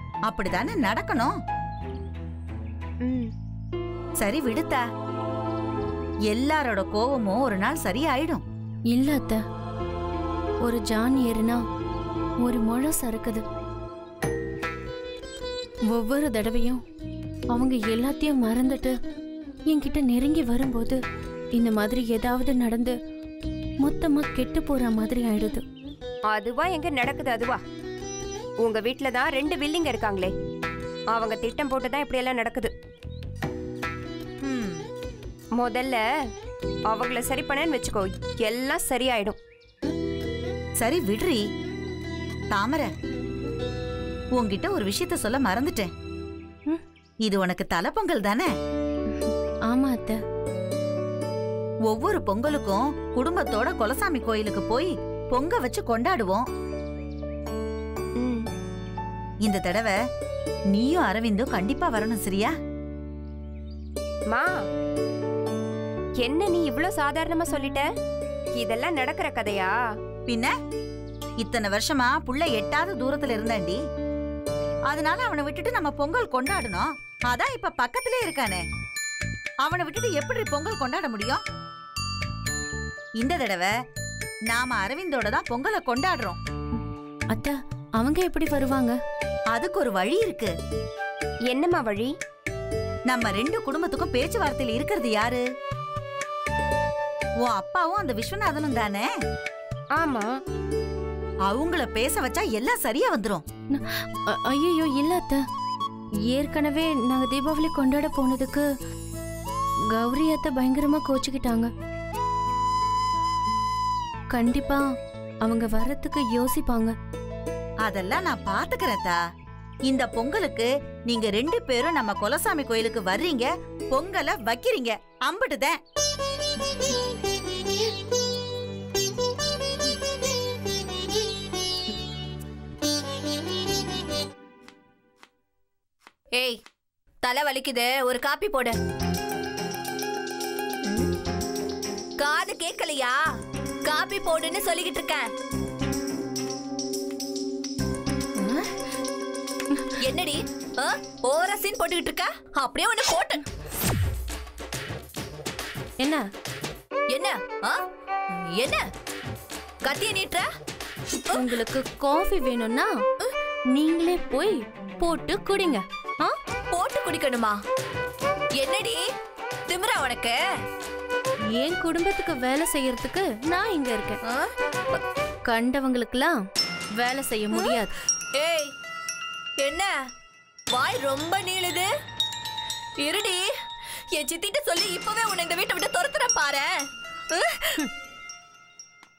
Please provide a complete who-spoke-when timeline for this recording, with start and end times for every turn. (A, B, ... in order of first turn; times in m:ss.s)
0:00.3-0:01.4 A
0:03.0-0:03.3 B
0:04.2-0:04.8 A
0:06.3-0:08.4 A
0:08.9-0:09.4 C
0:10.6-0:11.6 C
0:12.4-0:13.4 C
0:15.9-0:16.8 C
0:17.5-0:19.0 C
0:19.7-0:21.0 C
0:21.6-0:23.0 C
0:23.8-0:25.6 C
0:26.3-0:27.6 B
0:28.6-0:30.3 B
0:31.1-0:32.7 B
0:34.4-0:34.8 A
0:35.6-0:36.0 B
0:36.9-0:39.4 B
0:40.8-0:41.4 A
0:42.5-0:42.9 A
0:44.4-0:45.9 A
0:47.2-0:48.5 A
0:49.1-0:50.2 C
0:51.9-0:56.5 A
0:58.2-0:58.4 B
0:59.4-1:00.0 A
1:00.7-1:02.6 A
1:06.2-1:07.9 B
1:08.6-1:09.8 B
1:11.4-1:13.8 A
1:14.9-1:18.6 A
1:19.6-1:21.4 A
1:23.2-1:23.7 A
1:24.5-1:26.4 A
1:27.3-1:29.0 C
1:29.5-1:30.5 A
1:31.5-1:32.1 B
1:33.1-1:35.4 A
1:37.4-1:39.1 A
1:40.0-1:40.3 B
1:41.5-1:43.4 A
1:43.7-1:45.4 C
1:46.3-1:48.7 C
1:50.0-1:51.7 C
1:54.3-1:54.8 C
1:55.4-1:56.9 C
1:57.8-1:59.2 A
1:59.9-2:05.8 A
2:16.4-2:16.6 D
2:17.2-2:18.8 D
2:22.2-2:23.2 D
2:23.8-2:25.3 D
2:30.0-2:33.4 D
2:36.0-2:36.2 C
2:37.1-2:38.9 D
2:39.8-2:40.5 D
2:41.3-2:42.9 C
2:43.7-2:46.4 C
2:46.7-2:47.6 D
2:48.6-2:49.0 D
2:49.7-2:50.4 D
2:51.6-2:54.2 C
2:54.3-2:55.0 D
2:55.5-2:56.4 C
2:57.0-2:57.9 C
2:57.5-2:57.8 D
2:58.4-2:58.7 D
2:59.6-2:59.9 D
3:00.7-3:01.9 D
3:03.0-3:03.5 D
3:04.1-3:06.7 D
3:07.3-3:07.9 D